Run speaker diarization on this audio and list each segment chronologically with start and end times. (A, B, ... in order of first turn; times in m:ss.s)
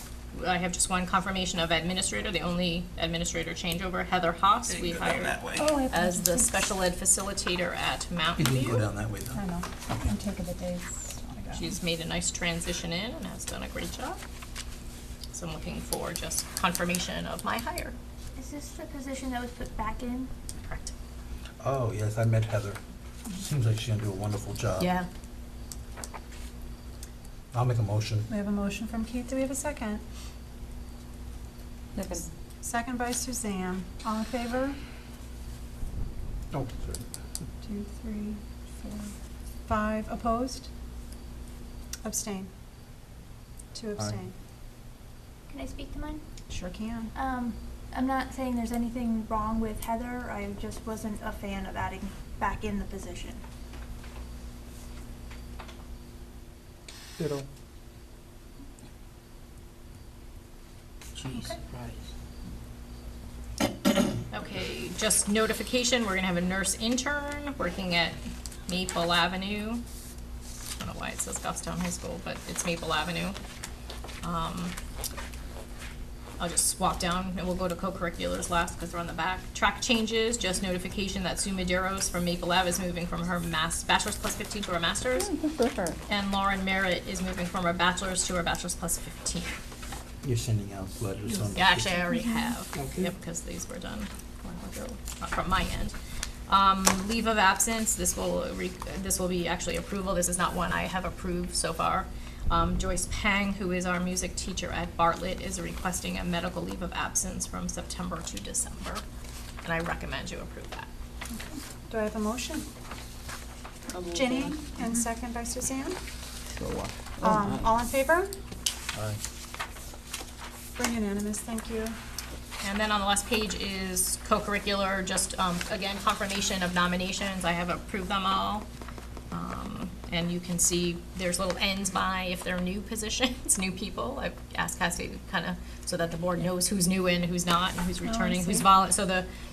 0:00.3-0:08.9 A
0:05.6-0:06.7 B
0:08.4-0:09.4 C
0:09.3-0:11.8 B
0:11.5-0:14.2 A
0:15.3-0:18.0 A
0:18.4-0:20.3 D
0:20.6-0:20.9 A
0:21.6-0:24.9 C
0:24.8-0:25.1 A
0:27.5-0:28.3 C
0:28.3-0:30.0 B
0:32.0-0:32.3 E
0:32.6-0:34.8 B
0:36.5-0:37.1 C
0:37.6-0:39.1 B
0:39.6-0:40.7 B
0:42.0-0:42.5 B
0:43.7-0:44.3 B
0:45.5-0:46.2 D
0:46.5-0:47.1 B
0:47.1-0:53.4 D
0:57.2-0:57.4 C
1:01.2-1:02.1 E
1:04.3-1:09.8 A
1:10.8-1:13.4 A
1:14.2-1:14.7 A
1:16.4-1:25.3 A
1:25.2-1:26.0 E
1:26.1-1:29.6 A
1:30.2-1:32.1 C
1:31.5-1:35.9 A
1:32.8-1:33.1 C
1:36.5-1:49.0 A
1:49.6-1:50.9 A
1:51.3-1:52.7 B
1:53.9-1:54.6 E
1:54.1-1:56.0 B
1:56.5-1:57.7 E
1:57.2-1:58.3 B
2:00.8-2:02.0 B
2:02.6-2:08.6 A
2:09.3-2:19.3 A
2:18.1-2:18.5 B